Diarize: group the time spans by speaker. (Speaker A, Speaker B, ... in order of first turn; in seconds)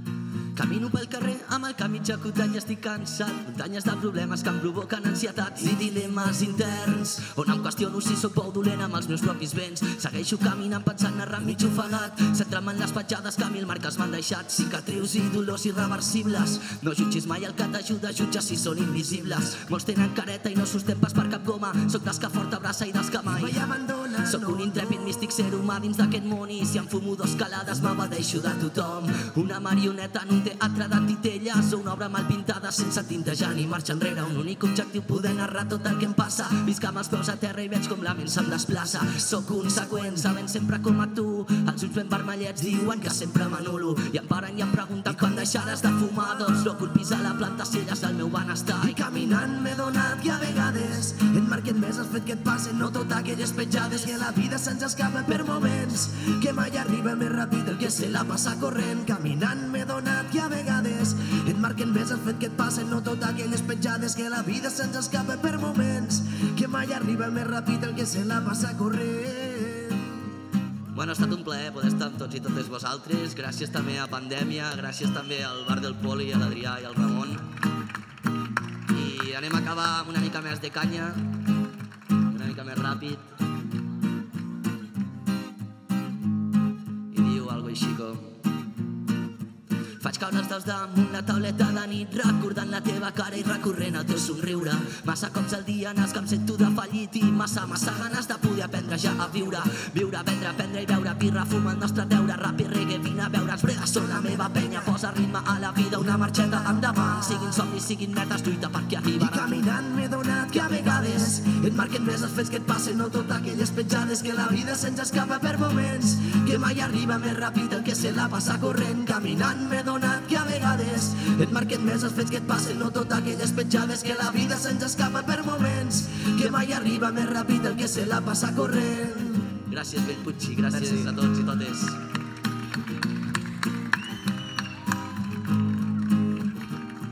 Speaker A: 0.5-23.6, 24.2-49.0, 70.9-77.4, 78.9-81.3, 82.2-83.3, 87.1-88.4, 90.0-109.6, 110.5-111.3, 129.7-132.0
Speaker B: 23.3-25.0, 45.1-45.7, 48.8-70.1, 103.6-105.0, 106.0-107.6, 109.2-129.5, 130.7-131.0